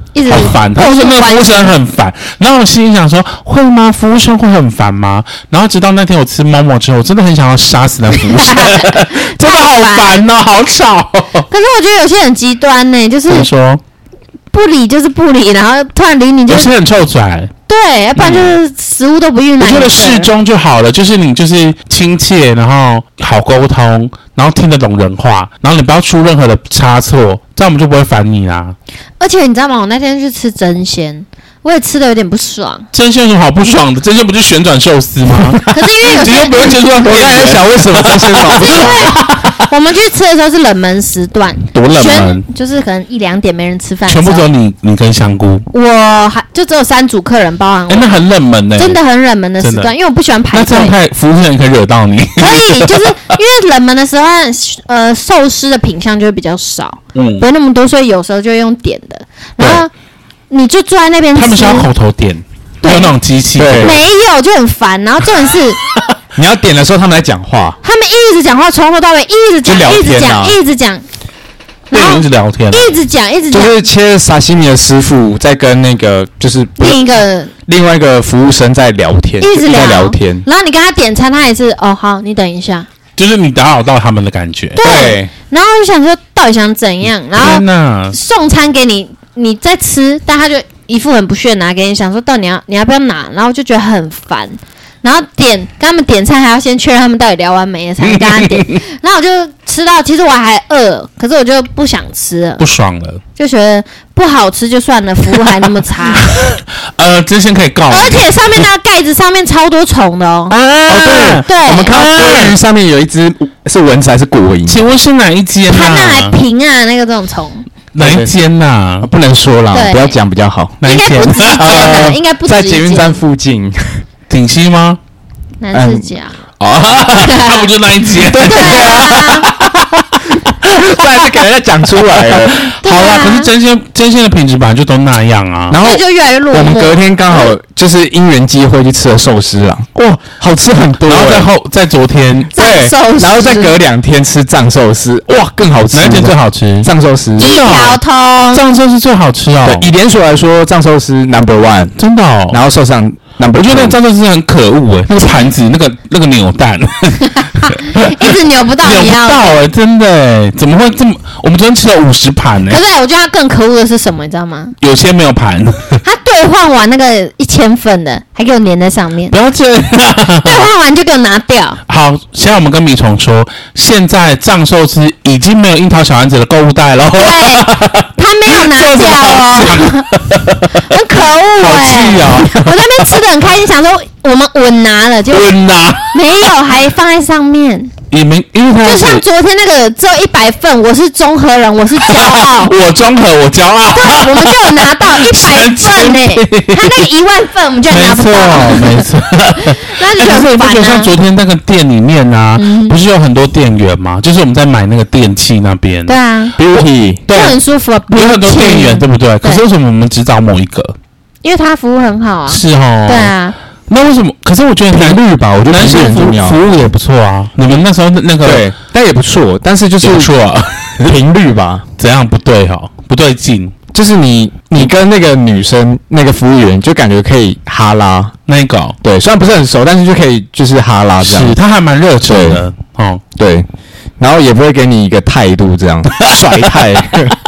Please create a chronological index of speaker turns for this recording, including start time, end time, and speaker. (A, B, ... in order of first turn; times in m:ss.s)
0:00.1-0:01.7 A
0:00.3-0:11.5 B
0:08.2-0:10.2 A
0:11.5-0:13.5 A
0:13.3-0:13.8 B
0:14.5-0:16.7 A
0:16.5-0:17.5 B
0:17.7-0:20.3 A
0:18.2-0:18.5 B
0:19.6-0:28.8 B
0:29.2-0:32.9 A
0:32.9-0:39.6 B
0:35.7-0:36.8 A
0:36.9-0:39.1 C
0:38.6-0:44.5 A
0:41.8-0:42.4 B
0:41.8-0:42.2 C
0:44.1-0:45.7 B
0:45.7-0:48.2 A
0:47.9-0:49.0 B
0:48.8-0:51.0 A
0:49.6-0:49.9 B
0:50.5-0:53.1 B
0:52.4-0:59.9 A
0:57.1-0:57.5 B
0:59.6-0:59.8 C
1:00.5-1:01.9 A
1:01.4-1:04.0 B
1:02.8-1:03.1 A
1:03.6-1:04.0 C
1:03.8-1:05.8 A
1:06.4-1:07.8 C
1:07.8-1:11.0 A
1:09.6-1:10.6 C
1:11.9-1:12.9 B
1:11.9-1:13.8 A
1:13.5-1:17.0 C
1:16.8-1:17.5 A
1:17.6-1:20.4 C
1:19.4-1:22.9 A
1:23.2-1:24.8 B
1:24.8-1:42.6 A
1:24.8-1:25.3 C
1:27.3-1:28.2 B
1:38.0-1:38.8 B
1:42.6-1:43.2 B
1:43.4-1:46.3 A
1:46.1-1:48.6 B
1:47.9-1:50.6 A
1:50.5-1:52.5 B
1:50.8-1:54.8 C
1:51.4-1:52.0 A
1:54.7-1:56.4 B
1:55.7-1:57.6 A
1:57.9-1:59.1 B
1:58.0-1:58.3 C
1:59.0-2:00.8 C
1:59.7-2:00.2 A
2:00.8-2:01.9 B
2:00.8-2:03.2 A
2:01.5-2:04.0 C
2:04.3-2:05.0 B
2:05.6-2:06.4 A
2:05.7-2:06.1 C
2:06.6-2:11.2 B
2:07.1-2:07.7 A
2:08.3-2:09.6 C
2:08.3-2:09.5 A
2:10.6-2:12.7 C
2:12.2-2:15.8 B
2:12.8-2:13.5 A
2:15.7-2:21.5 C
2:15.8-2:17.0 A
2:21.0-2:22.5 B
2:22.5-2:23.8 A
2:22.5-2:27.6 C
2:25.9-2:28.0 B
2:27.4-2:28.6 A
2:28.5-2:29.9 B
2:29.6-2:32.0 C
2:32.0-2:32.6 B
2:32.5-2:34.0 C
2:33.5-2:42.8 B
2:37.6-2:39.6 A
2:42.7-2:44.8 A
2:44.8-2:46.0 B
2:46.0-2:49.3 A
2:49.3-2:50.7 B
2:50.4-2:51.8 A
2:51.9-3:00.9 B
2:57.1-3:00.1 A
3:00.7-3:05.5 A
3:01.6-3:02.8 B
3:05.3-3:06.2 B
3:06.1-3:07.9 A
3:08.1-3:09.2 B
3:08.8-3:12.7 A
3:12.0-3:17.1 B
3:13.9-3:19.1 A
3:17.9-3:26.2 B
3:19.6-3:21.1 A
3:22.6-3:23.0 A
3:26.1-3:26.6 A
3:26.6-3:27.2 C
3:26.7-3:27.6 B
3:27.3-3:29.6 A
3:28.1-3:31.0 B
3:31.4-3:33.6 A
3:32.5-3:33.3 B
3:33.9-3:38.7 B
3:34.9-3:36.6 C
3:38.4-3:40.3 C
3:40.0-3:41.1 B
3:41.0-3:41.8 C
3:42.0-3:43.8 B
3:43.9-3:48.3 C
3:48.5-3:49.0 B
3:49.0-3:51.6 C
3:51.2-3:53.2 B
3:52.2-3:52.6 C
3:53.4-3:53.6 C
3:54.2-3:57.4 C
3:56.2-3:56.7 B